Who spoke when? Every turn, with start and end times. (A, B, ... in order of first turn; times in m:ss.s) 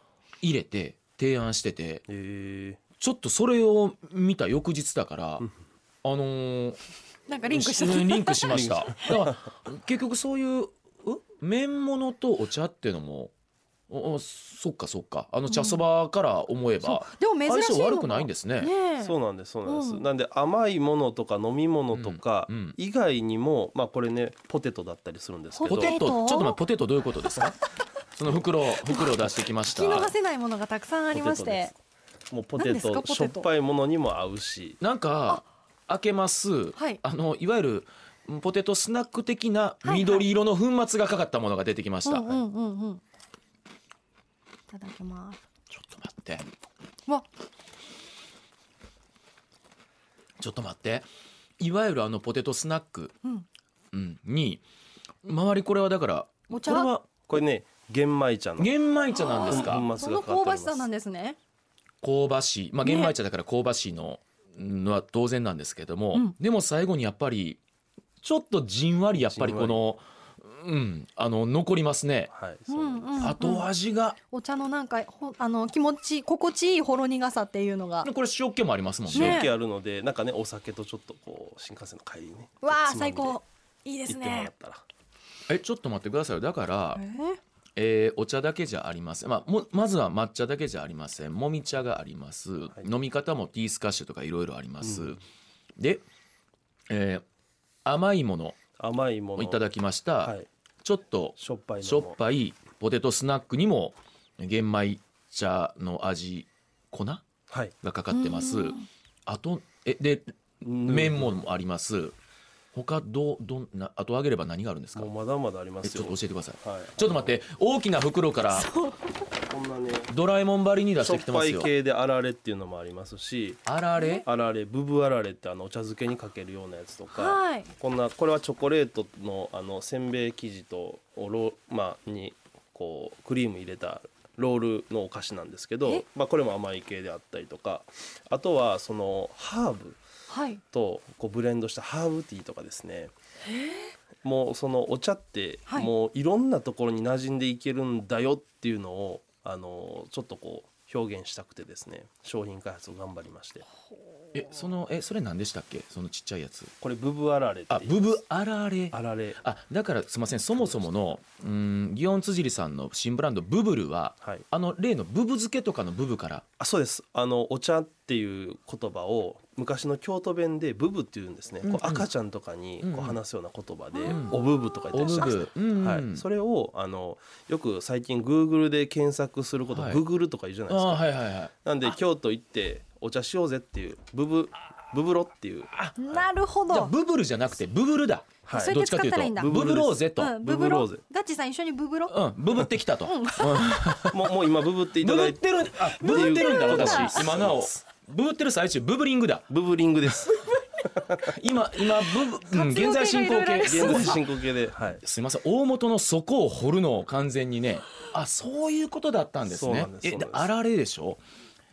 0:00.4-0:02.0 A
0:02.1-0:02.8 B
0:03.0-0:05.5 A
0:06.0-0:06.8 A
0:07.3-0:09.2 C
0:07.5-0:13.3 A
0:08.5-0:09.4 B
0:13.9-0:18.7 A
0:15.5-0:15.8 C
0:16.8-0:19.2 C
0:19.0-0:25.9 B
0:19.7-0:20.0 C
0:21.9-0:22.8 A
0:25.6-0:26.6 C
0:25.7-0:27.6 A
0:28.1-0:30.1 A
0:28.8-0:31.7 C
0:31.1-0:31.7 B
0:32.3-0:34.8 B
0:32.6-0:33.5 C
0:34.8-0:42.4 A
0:36.8-0:37.0 C
0:39.8-0:40.3 C
0:42.0-0:43.0 C
0:44.7-0:45.4 C
0:45.7-0:46.5 A
0:50.4-0:51.1 A
0:51.6-0:53.1 A
0:53.9-0:54.6 A
0:55.2-0:57.1 A
0:56.5-0:56.9 C
0:57.3-0:58.7 B
0:58.6-0:59.9 A
0:59.1-1:01.4 C
0:59.4-1:00.9 B
1:02.0-1:07.6 A
1:02.8-1:03.1 C
1:08.2-1:12.3 A
1:09.1-1:09.8 B
1:12.3-1:13.4 B
1:12.7-1:13.7 C
1:13.2-1:14.2 A
1:14.3-1:18.1 C
1:18.0-1:19.4 A
1:19.1-1:23.4 B
1:19.2-1:19.5 C
1:22.6-1:24.5 C
1:24.1-1:24.8 B
1:25.5-1:27.0 A
1:27.0-1:27.4 C
1:27.8-1:35.2 A
1:34.8-1:35.2 B
1:35.8-1:36.0 A
1:36.9-1:37.2 A
1:37.8-1:38.6 A
1:38.8-1:39.6 B
1:39.4-1:47.3 A
1:40.2-1:40.5 B
1:41.4-1:42.2 B
1:47.8-1:48.8 A
1:48.1-1:48.9 C
1:49.3-1:52.2 A
1:50.6-1:51.4 B
1:52.7-1:55.1 A
1:55.0-1:57.4 B
1:55.8-1:58.7 A
1:58.5-1:59.0 C
1:59.5-2:00.1 B
2:00.1-2:01.7 A
2:01.0-2:03.6 B
2:03.6-2:04.3 A
2:04.0-2:04.2 C
2:04.2-2:20.0 B
2:07.1-2:07.7 C
2:20.3-2:20.6 C
2:20.7-2:23.1 B
2:23.5-2:23.9 C
2:24.2-2:33.7 B
2:34.3-2:36.7 A
2:36.8-2:38.0 B
2:37.7-2:46.4 A
2:38.9-2:39.4 B
2:40.6-2:40.9 B
2:46.6-3:06.2 B
2:51.6-2:52.1 A
2:52.8-2:53.2 A
2:54.0-2:54.2 C
2:54.1-2:54.4 A
2:54.9-2:56.2 A
2:59.7-3:00.0 A
3:00.7-3:01.5 A
3:05.7-3:06.1 A
3:06.0-3:06.9 C
3:06.7-3:10.4 A
3:08.5-3:08.8 B
3:08.5-3:09.6 C
3:09.4-3:11.0 B
3:10.2-3:12.3 C
3:12.1-3:14.3 A
3:13.0-3:13.7 C
3:14.1-3:17.8 B
3:15.0-3:19.5 A
3:16.0-3:17.4 C
3:19.5-3:21.3 B
3:21.2-3:24.2 A
3:22.3-3:24.2 C
3:23.6-3:25.0 B
3:25.0-3:31.2 A
3:29.4-3:30.5 B